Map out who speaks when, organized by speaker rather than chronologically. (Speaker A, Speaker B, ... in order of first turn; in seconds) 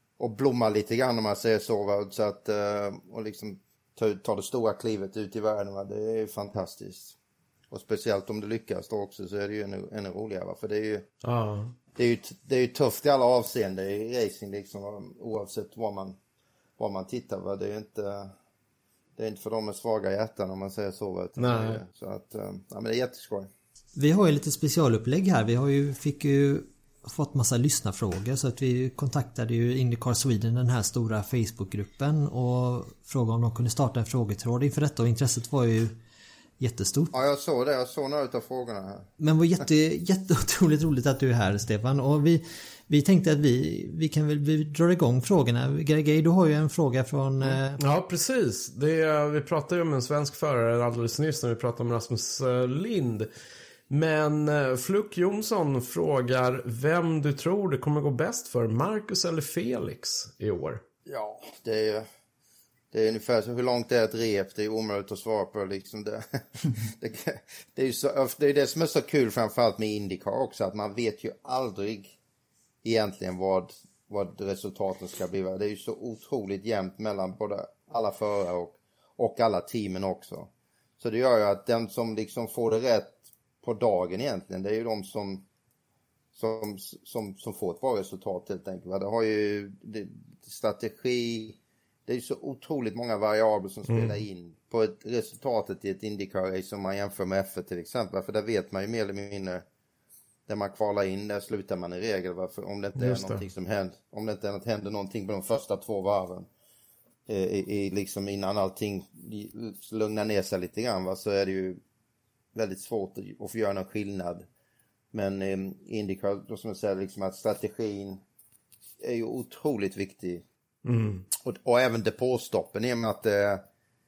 Speaker A: 0.2-7.2, 7.7-11.1, 11.9-16.2, 16.8-18.3, 19.2-23.5, 37.1-39.1, 61.0-62.0, 62.9-72.2, 72.8-85.4, 86.3-99.6, 100.5-106.5, 107.3-111.8, 112.5-114.5, 115.1-118.2, 119.0-120.4, 121.4-123.6
Speaker B: 11.2-11.7, 21.4-21.8, 47.8-53.3, 53.9-60.8, 93.9-94.2, 102.9-103.4, 120.8-121.2
Speaker C: 23.9-36.0, 36.6-37.1, 39.2-47.8